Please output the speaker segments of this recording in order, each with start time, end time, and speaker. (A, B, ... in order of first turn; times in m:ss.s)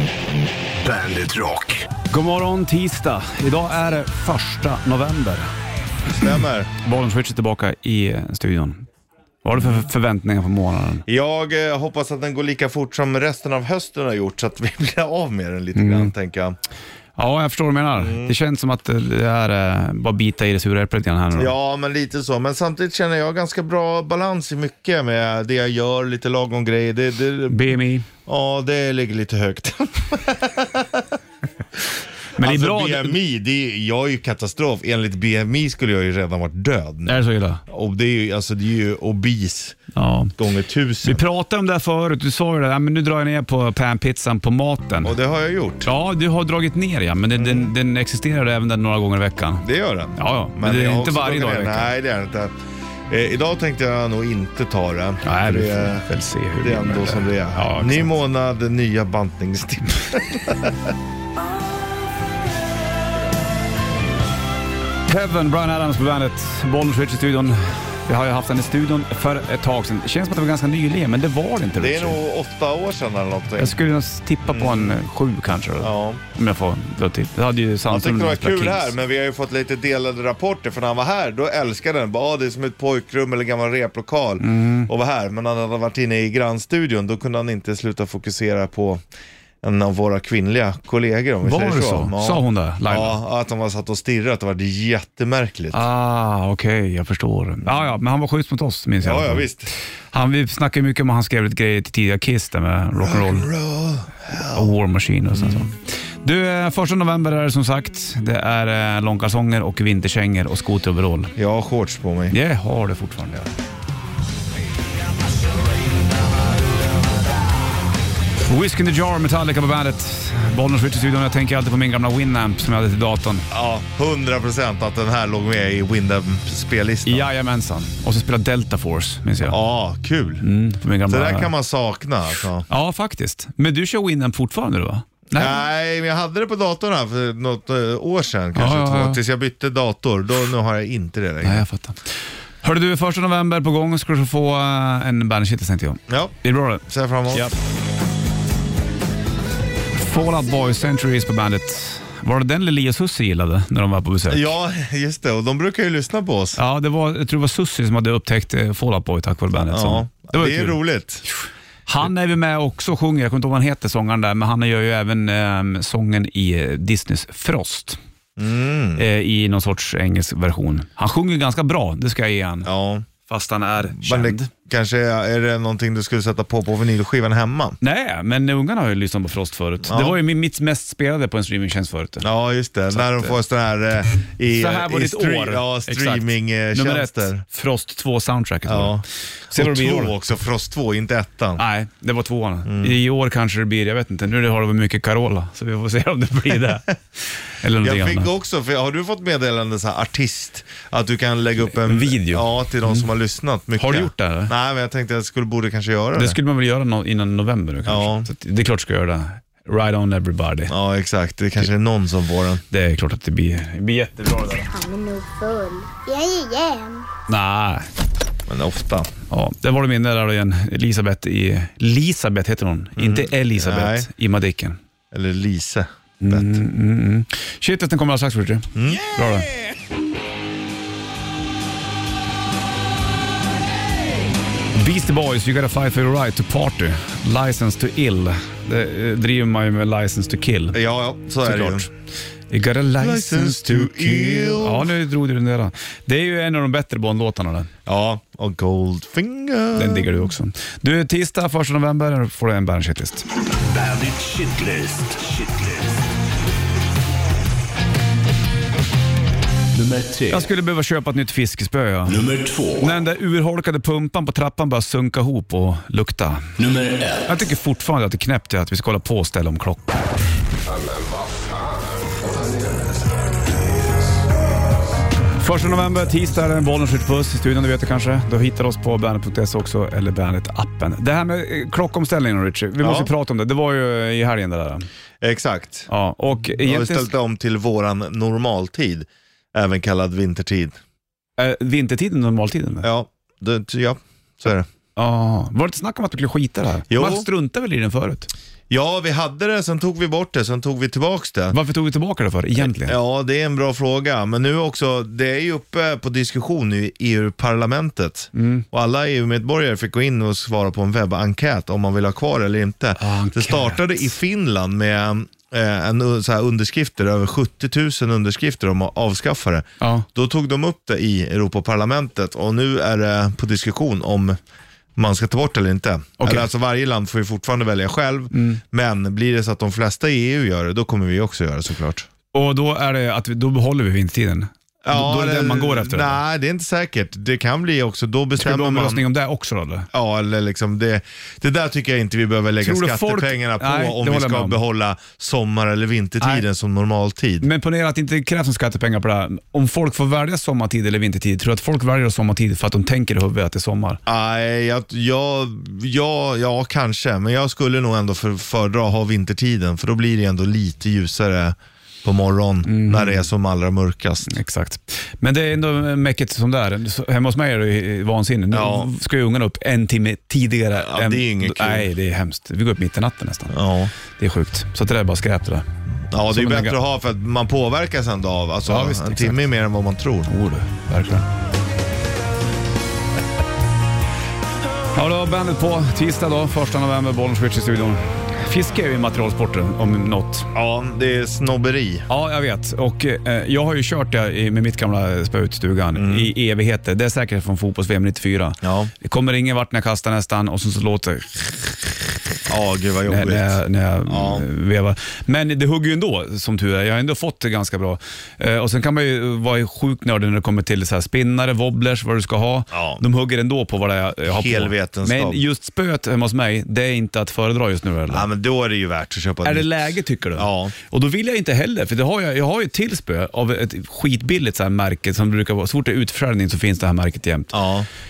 0:00.8-0:01.9 A
0:02.1-0:05.5 B
0:06.1-0:06.7 C
0:06.8-0:08.9 B
0:09.4-0:11.0 B
0:09.5-0:09.8 C
0:11.1-0:16.6 C
0:15.8-0:16.1 B
0:17.2-0:21.5 B
0:17.9-0:18.4 C
0:21.4-0:31.1 C
0:27.5-0:28.1 B
0:32.4-0:33.2 B
0:32.4-0:39.8 C
0:37.1-0:37.6 B
0:39.9-0:40.3 B
0:40.4-0:41.2 C
0:41.0-0:45.2 B
0:45.0-0:45.9 C
0:45.8-0:49.6 B
0:47.4-0:47.7 C
0:49.6-0:52.6 C
0:50.2-0:51.9 B
0:53.1-0:56.1 C
0:55.2-0:58.2 B
0:56.6-1:00.9 C
1:05.1-1:12.2 B
1:11.8-1:13.8 C
1:13.6-1:19.0 B
1:14.5-1:15.0 C
1:15.8-1:16.2 C
1:17.9-1:29.0 C
1:24.4-1:24.9 B
1:29.6-1:35.8 C
1:31.4-1:33.2 B
1:35.7-1:39.5 B
1:39.0-1:39.7 C
1:40.1-1:43.5 B
1:43.0-1:44.7 C
1:44.5-1:51.4 B
1:45.3-1:45.7 C
1:51.4-1:52.4 C
1:52.3-1:53.5 B
1:58.4-2:03.5 B
2:03.5-2:07.3 C
2:07.1-2:09.6 B
2:09.4-2:10.4 C
2:10.4-2:11.5 B
2:11.1-2:12.7 C
2:12.7-2:15.6 B
2:15.3-2:21.6 C
2:18.6-2:19.2 B
2:21.4-2:22.0 B
2:22.6-2:27.6 B
2:26.1-2:27.5 C
2:30.0-2:34.5 B
2:34.3-2:36.6 C
2:36.6-2:48.0 B
2:39.7-2:41.2 C
2:48.4-2:49.1 C
2:49.0-2:52.7 B
2:52.6-2:53.1 C
2:53.3-2:54.5 B
2:53.9-2:57.8 C
2:57.8-3:02.3 B
2:59.8-3:00.2 C
3:02.2-3:07.4 C
3:02.9-3:03.4 B
3:04.5-3:10.1 B
3:08.7-3:11.6 C
3:11.6-3:17.0 B
3:12.6-3:13.0 C
3:17.5-3:18.3 B
3:17.8-3:26.4 C
3:21.8-3:23.1 B
3:23.8-3:24.5 B
3:26.2-3:30.7 B
3:27.9-3:28.3 C
3:30.7-3:32.6 C
3:32.7-3:34.7 B
3:34.7-3:37.1 D
3:37.3-3:37.9 B
3:38.5-3:39.1 C
3:39.3-3:44.8 B
3:43.0-3:44.1 C
3:45.1-3:46.6 C
3:46.2-3:49.5 B
3:48.8-3:49.1 C
3:54.7-4:00.8 B
4:00.7-4:01.9 C
4:01.4-4:01.9 B
4:02.5-4:07.7 B
4:03.0-4:05.0 C
4:07.9-4:10.3 C
4:09.7-4:13.2 B
4:13.5-4:16.0 A
4:19.7-4:20.5 A
4:20.3-4:22.2 B
4:22.1-4:22.9 A
4:22.8-4:26.5 B
4:26.6-4:27.4 A
4:27.3-4:30.1 B
4:30.6-4:33.3 A
4:35.4-4:44.9 B
4:42.8-4:43.1 C
4:45.2-4:45.9 C
4:45.9-4:47.1 B
4:46.4-4:50.8 C
4:51.4-4:52.9 B
4:52.8-4:54.7 C
4:55.0-4:58.3 B
4:56.9-4:57.3 C
4:58.7-5:01.6 C
5:01.5-5:03.0 B
5:02.6-5:24.4 C
5:08.4-5:08.6 B
5:13.0-5:14.0 B
5:19.8-5:20.1 B
5:25.0-5:32.1 C
5:26.2-5:26.5 B
5:28.3-5:28.6 B
5:32.3-5:36.2 B
5:34.8-5:39.1 C
5:38.4-5:39.9 B
5:39.9-5:47.5 C
5:42.6-5:44.6 B
5:47.4-5:54.0 B
5:54.1-6:04.4 C
6:02.6-6:03.2 B
6:04.3-6:15.7 B
6:08.5-6:08.9 C
6:10.8-6:11.9 C
6:13.5-6:13.9 C
6:16.1-6:20.3 C
6:16.3-6:16.8 B
6:18.7-6:19.5 B
6:20.3-6:21.3 B
6:24.9-6:30.5 B
6:30.5-6:32.1 C
6:32.1-6:41.7 B
6:36.0-6:36.3 C
6:38.6-6:38.9 C
6:42.5-6:44.5 C
6:43.1-6:58.3 B
6:52.7-6:53.0 C
6:54.3-6:55.4 C
6:58.1-7:00.7 C
6:59.4-7:07.6 B
7:07.5-7:07.9 C